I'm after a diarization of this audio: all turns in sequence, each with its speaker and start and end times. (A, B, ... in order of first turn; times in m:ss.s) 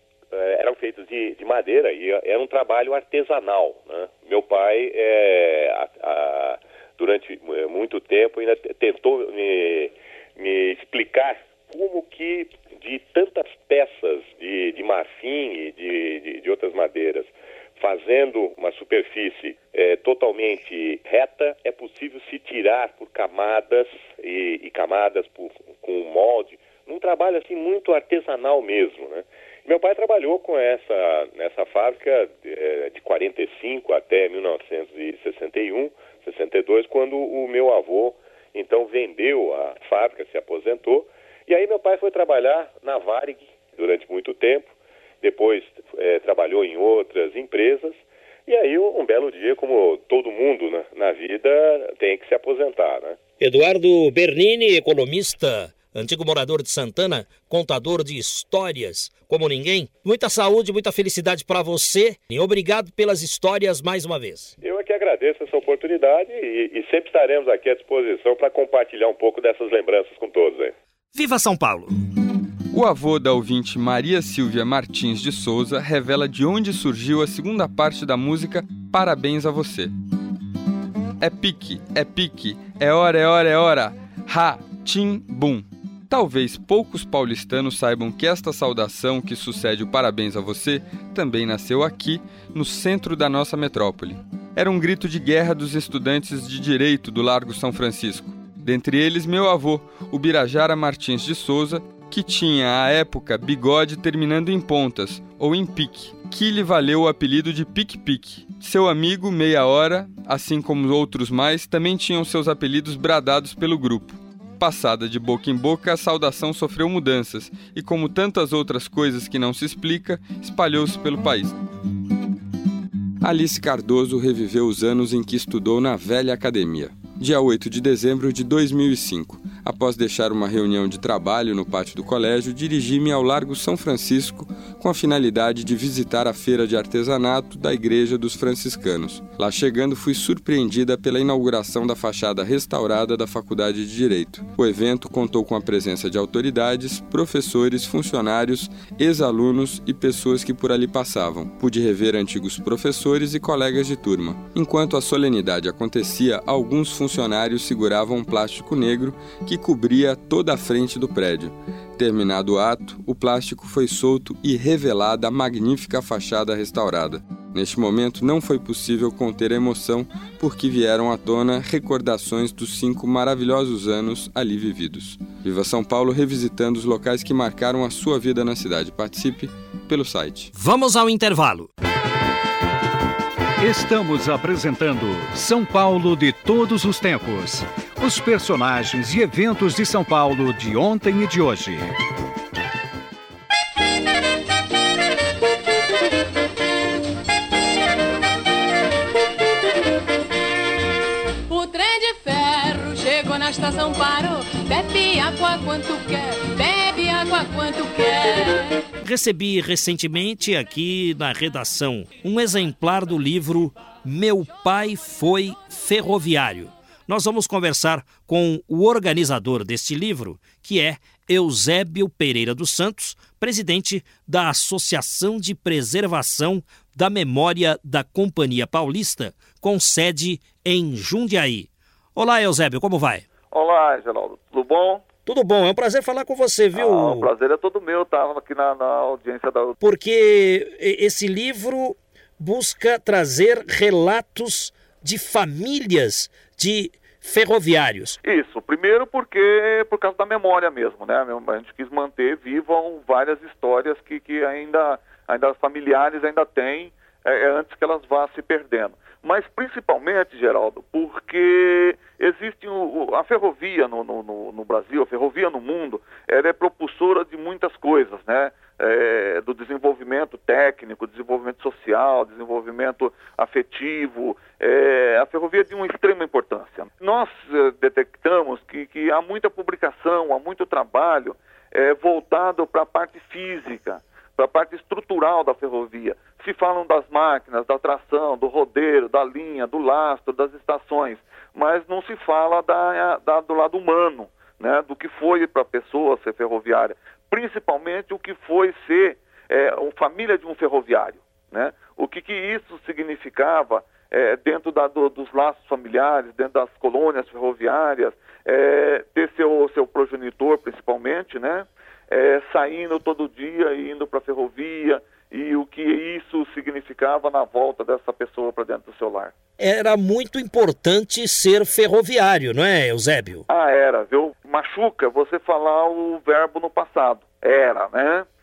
0:00.3-0:44.7 A
0:45.2-0:53.2 A
0:53.4-1:04.5 B
1:04.6-1:10.7 A
1:11.1-1:11.9 B
1:12.7-1:19.9 C
1:21.2-2:01.5 C
2:03.2-3:00.5 C
3:00.5-3:01.7 B
3:03.6-3:11.9 D
3:21.5-3:28.9 E
3:29.0-3:53.2 B
3:53.5-3:55.0 F
3:55.3-3:57.3 B
3:56.7-3:59.8 F
3:59.8-4:08.2 B
4:08.2-5:19.3 F
5:19.6-5:23.4 B
5:23.5-5:28.3 F